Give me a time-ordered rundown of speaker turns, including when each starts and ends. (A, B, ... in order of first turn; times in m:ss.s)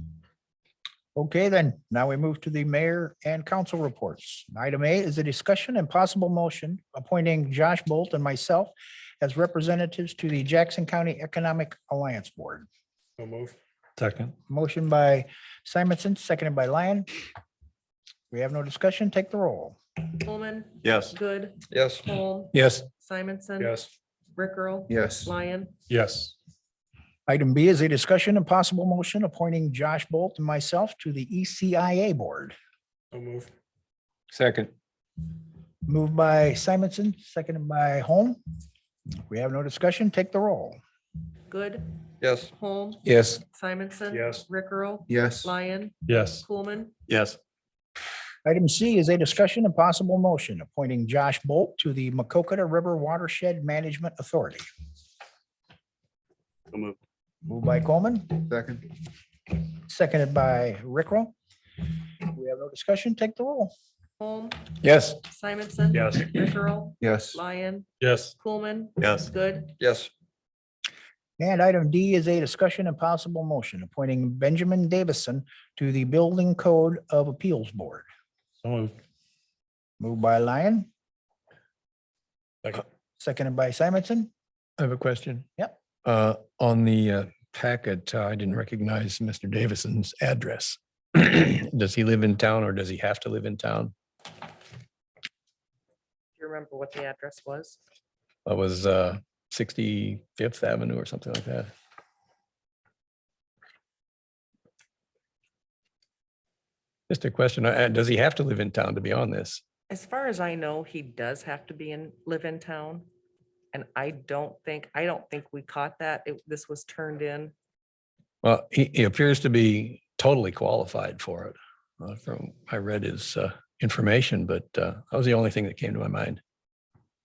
0:01.1-0:12.7 A
0:13.2-0:14.3 B
0:14.5-0:17.1 A
0:18.3-0:19.8 A
0:20.1-0:25.7 C
0:20.8-0:21.1 D
0:21.7-0:22.1 E
0:22.5-0:22.8 D
0:23.6-0:23.9 B
0:24.9-0:25.3 E
0:25.9-0:26.3 B
0:27.3-0:32.5 A
0:33.2-0:33.4 B
0:34.3-0:34.7 D
0:35.8-0:38.4 A
0:39.3-0:40.8 A
0:41.5-0:46.9 C
0:42.2-0:42.5 E
0:43.0-0:43.4 D
0:44.1-0:44.4 B
0:46.1-0:46.4 B
0:47.1-0:47.4 D
0:48.4-0:54.6 A
0:57.4-0:58.5 A
0:59.9-1:01.3 A
1:02.3-1:03.7 A
1:04.2-1:09.7 C
1:04.8-1:05.2 D
1:05.9-1:06.3 B
1:07.0-1:07.3 E
1:08.0-1:08.3 B
1:09.8-1:10.1 E
1:11.4-1:18.0 A
1:18.6-1:18.9 B
1:20.0-1:20.9 A
1:23.2-1:24.3 A
1:24.8-1:25.5 D
1:26.0-1:33.9 D
1:36.4-1:37.8 C
1:38.4-1:41.7 D
1:47.1-1:49.6 D
1:49.9-1:53.0 C
1:53.7-1:57.5 C
1:58.4-2:06.4 D